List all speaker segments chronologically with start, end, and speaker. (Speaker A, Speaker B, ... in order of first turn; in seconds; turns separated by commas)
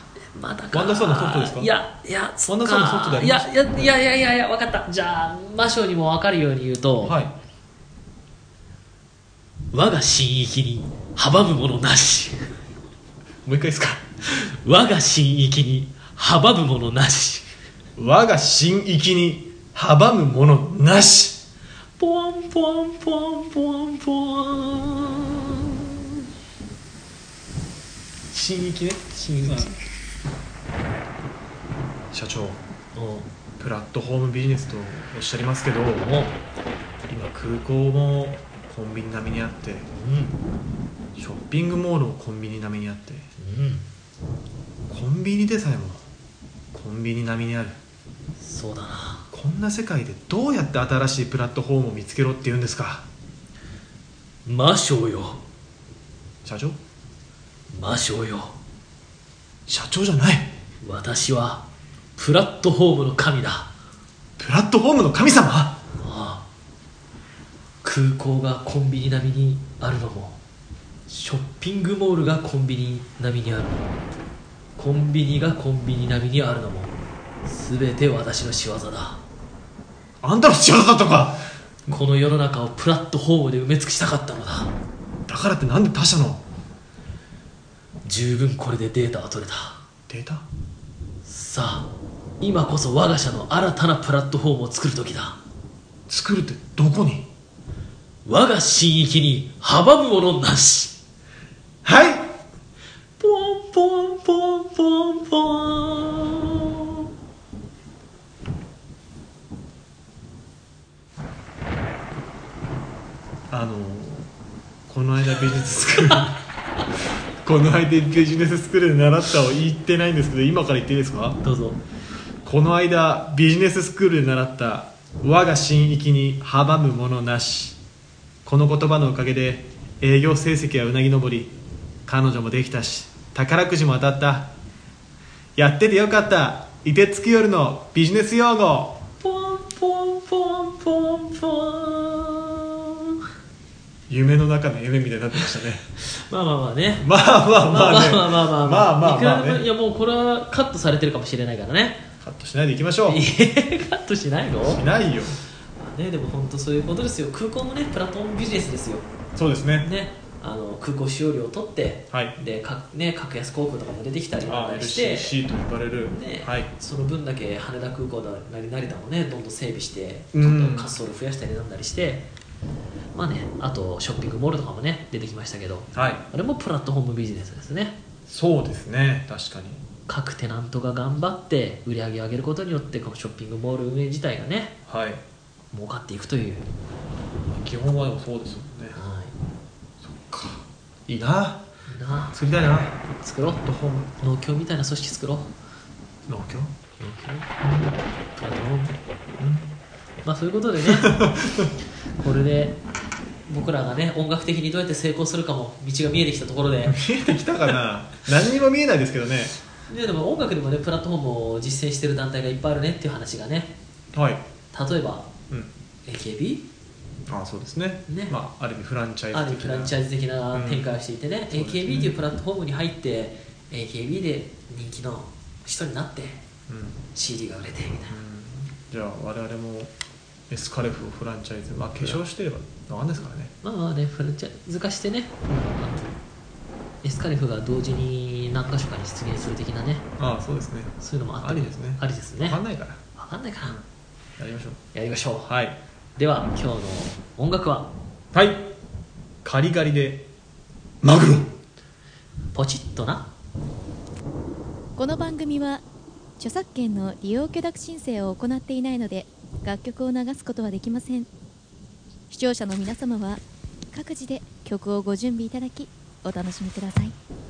Speaker A: 0.3-7.2, Speaker B: 0.7-1.7, Speaker B: 2.5-4.0, Speaker B: 7.0-7.3, Speaker A: 9.7-12.5, Speaker B: 13.4-14.0, Speaker A: 14.2-17.5, Speaker B: 18.0-21.4, Speaker A: 22.0-25.8, Speaker B: 28.3-29.7, Speaker A: 29.1-29.8, Speaker B: 32.1-32.6, Speaker A: 33.0-33.3, Speaker B: 33.6-36.1, Speaker A: 36.0-36.4, Speaker B: 37.1-39.9, Speaker A: 39.9-40.4, Speaker B: 41.2-43.3, Speaker A: 43.4-43.9, Speaker B: 44.9-46.0, Speaker B: 46.7-47.8, Speaker A: 48.4-49.2, Speaker B: 49.3-53.1, Speaker A: 54.5-55.4, Speaker B: 56.4-56.8, Speaker A: 57.7-58.6, Speaker B: 59.7-60.6, Speaker A: 60.8-61.6, Speaker A: 62.2-63.7, Speaker B: 64.4-65.8, Speaker A: 66.0-66.5, Speaker A: 67.8-70.4, Speaker A: 71.1-73.9, Speaker A: 74.8-79.2, Speaker B: 80.2-82.0, Speaker A: 81.9-84.7, Speaker B: 85.3-86.4, Speaker A: 88.0-89.8, Speaker B: 90.1-90.5, Speaker A: 91.2-95.4, Speaker B: 96.1-97.3, Speaker A: 98.2-101.0, Speaker B: 101.8-102.4, Speaker A: 103.2-106.6, Speaker B: 113.5-114.3, Speaker B: 114.9-116.4, Speaker B: 117.4-121.4, Speaker A: 121.4-121.8, Speaker B: 122.4-127.8, Speaker B: 128.4-131.5, Speaker B: 132.1-134.5, Speaker B: 135.6-139.0, Speaker A: 139.2-143.1, Speaker B: 144.1-145.9, Speaker A: 146.0-147.1, Speaker B: 147.0-149.7, Speaker A: 147.7-152.1, Speaker B: 152.2-153.2, Speaker A: 153.1-154.8, Speaker B: 154.7-155.4, Speaker A: 155.8-159.1, Speaker B: 159.4-159.9, Speaker A: 159.8-165.4, Speaker B: 162.1-162.4, Speaker B: 164.4-166.7, Speaker A: 166.1-172.3, Speaker B: 170.3-170.9, Speaker A: 173.2-178.0, Speaker B: 175.9-176.2, Speaker B: 178.3-179.8, Speaker A: 180.1-184.8, Speaker B: 184.9-185.2, Speaker A: 185.7-186.7, Speaker B: 187.5-189.0, Speaker A: 188.9-189.3, Speaker B: 190.0-191.7, Speaker A: 191.9-192.4, Speaker B: 192.3-194.2, Speaker A: 193.2-193.7, Speaker A: 194.2-195.5, Speaker B: 196.3-196.7, Speaker A: 197.0-197.5, Speaker B: 197.6-198.0, Speaker A: 198.4-199.0, Speaker B: 199.4-199.8, Speaker A: 200.2-201.2, Speaker B: 200.8-201.7, Speaker A: 202.2-202.8, Speaker A: 203.5-207.4, Speaker B: 206.9-209.6, Speaker A: 209.9-213.7, Speaker B: 214.1-214.4, Speaker A: 214.7-215.3, Speaker A: 216.1-216.7, Speaker B: 217.3-220.0, Speaker A: 218.1-218.4, Speaker A: 219.3-226.4, Speaker B: 220.5-220.9, Speaker B: 221.5-222.2, Speaker B: 226.7-227.0, Speaker A: 227.2-228.2, Speaker B: 228.1-229.9, Speaker B: 230.5-233.5, Speaker A: 233.6-236.2, Speaker B: 235.5-235.8, Speaker A: 237.0-240.1, Speaker B: 240.2-243.0, Speaker A: 241.0-242.6, Speaker A: 243.2-243.8, Speaker B: 244.4-244.8, Speaker A: 244.9-245.5, Speaker B: 245.4-245.8, Speaker A: 246.2-247.9, Speaker B: 248.3-248.7, Speaker B: 249.4-250.3, Speaker B: 251.0-251.6, Speaker A: 252.5-253.3, Speaker C: 255.0-255.8, Speaker C: 256.4-261.3, Speaker C: 262.3-267.1